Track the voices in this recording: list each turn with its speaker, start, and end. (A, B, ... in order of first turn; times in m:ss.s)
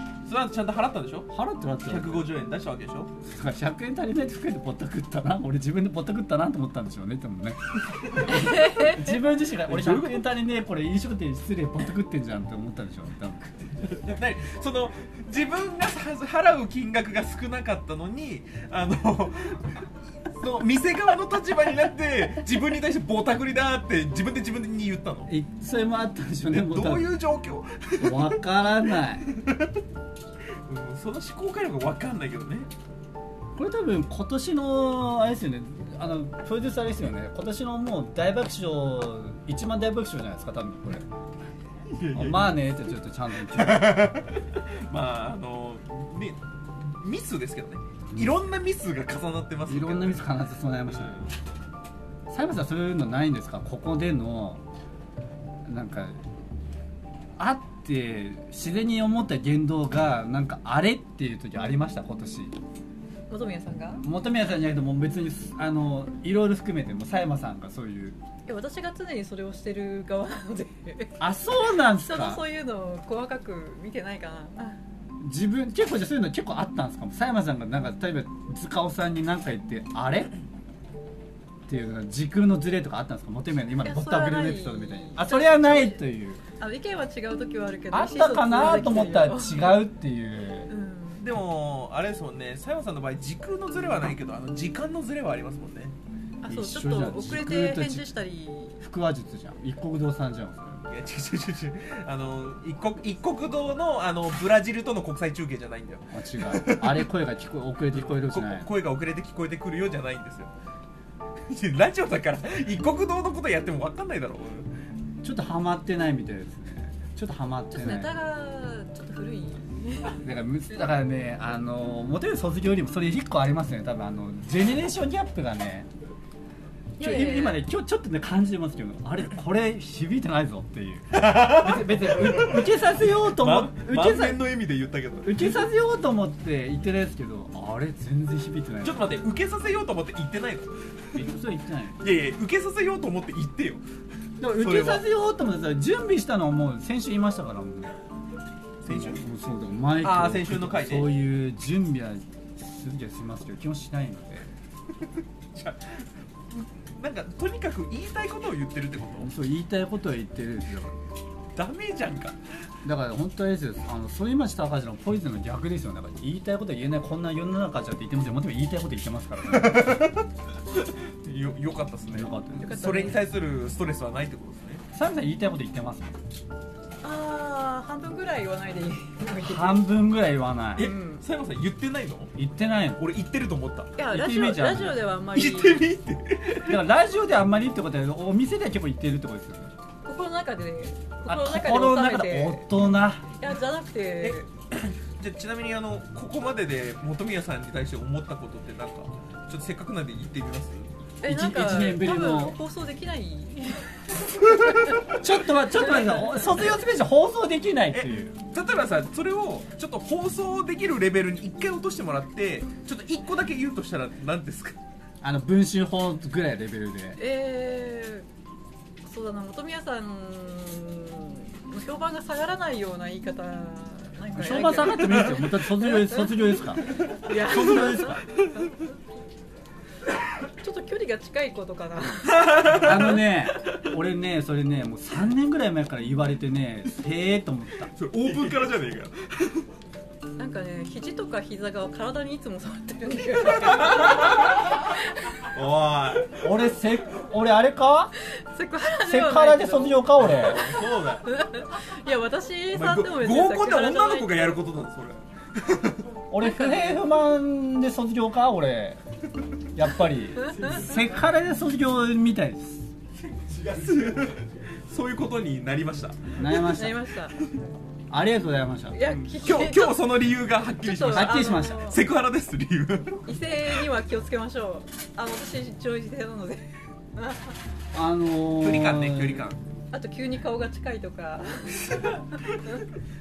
0:00.2-0:01.3 A
0:01.3-0:02.3 B
0:01.8-0:03.1 A
0:03.2-0:14.0 B
0:08.2-0:09.1 C
0:09.7-0:10.2 A
0:14.0-0:19.8 A
0:20.4-0:25.3 A
0:25.3-0:27.1 B
0:26.5-0:28.4 A
0:28.0-0:29.3 B
0:29.2-0:29.7 A
0:30.6-0:32.7 A
0:33.5-0:41.2 B
0:41.9-0:42.6 A
0:42.1-0:44.2 B
0:43.5-0:50.2 A
0:49.7-0:51.3 B
0:50.9-0:51.3 A
0:52.3-0:54.6 B
0:55.6-0:56.2 B
0:57.4-1:02.6 B
1:03.3-1:04.0 C
1:04.0-1:08.2 B
1:08.5-1:11.2 C
1:11.2-1:12.4 B
1:11.9-1:14.8 C
1:15.2-1:20.3 B
1:21.7-1:26.4 B
1:23.8-1:26.0 C
1:26.6-1:29.8 C
1:27.9-1:30.7 B
1:30.7-1:31.2 C
1:31.2-1:35.9 A
1:36.4-1:38.8 C
1:36.5-1:38.1 B
1:38.8-1:40.9 B
1:40.9-1:47.0 A
1:46.1-1:48.7 B
1:47.9-1:50.5 A
1:51.5-1:54.7 A
1:55.2-1:58.1 B
1:57.7-2:00.2 C
2:00.2-2:05.9 B
2:07.0-2:07.6 C
2:07.0-2:14.4 B
2:11.1-2:12.7 A
2:13.2-2:15.6 A
2:15.2-2:19.2 B
2:18.8-2:21.2 A
2:21.1-2:22.0 B
2:22.0-2:23.8 A
2:24.4-2:28.0 B
2:24.5-2:25.0 A
2:28.8-2:29.2 A
2:28.9-2:34.5 B
2:30.0-2:31.1 A
2:35.5-2:39.3 A
2:39.2-2:41.0 B
2:41.6-2:42.4 A
2:42.8-2:50.1 B
2:49.5-2:50.2 A
2:50.7-2:54.8 A
2:52.1-2:52.8 B
2:52.6-2:53.2 C
2:54.9-2:56.2 B
2:57.0-2:59.8 C
2:59.4-3:00.9 B
3:00.8-3:02.4 A
3:00.8-3:01.2 C
3:02.4-3:03.0 B
3:03.0-3:03.9 A
3:04.0-3:05.8 C
3:04.0-3:05.0 B
3:05.3-3:06.8 A
3:06.6-3:09.7 B
3:10.0-3:12.7 C
3:11.3-3:13.2 B
3:13.4-3:14.4 C
3:14.2-3:20.9 A
3:21.2-3:25.1 C
3:21.2-3:22.6 B
3:25.1-3:28.4 B
3:27.9-3:34.8 A
3:35.2-3:37.2 B
3:37.2-3:38.2 C
3:39.0-3:46.2 C
3:44.3-3:48.2 B
3:47.1-3:48.7 C
3:50.6-3:52.9 C
3:52.3-3:53.1 A
3:52.6-3:57.9 B
3:57.9-3:59.6 A
4:00.4-4:05.5 C
4:03.4-4:04.9 A
4:05.5-4:06.4 A
4:06.3-4:08.1 B
4:08.2-4:14.6 C
4:09.0-4:10.7 B
4:10.2-4:11.3 A
4:12.7-4:16.0 A
4:16.3-4:19.0 B
4:16.4-4:17.0 C
4:19.7-4:22.9 B
4:20.4-4:20.9 C
4:23.5-4:26.4 A
4:26.4-4:27.0 B
4:26.5-4:27.4 C
4:28.1-4:29.1 B
4:28.9-4:30.1 C
4:29.4-4:33.8 A
4:30.8-4:32.0 C
4:31.0-4:31.9 B
4:33.2-4:37.5 C
4:37.9-4:39.5 B
4:38.6-4:39.6 A
4:39.9-4:42.8 C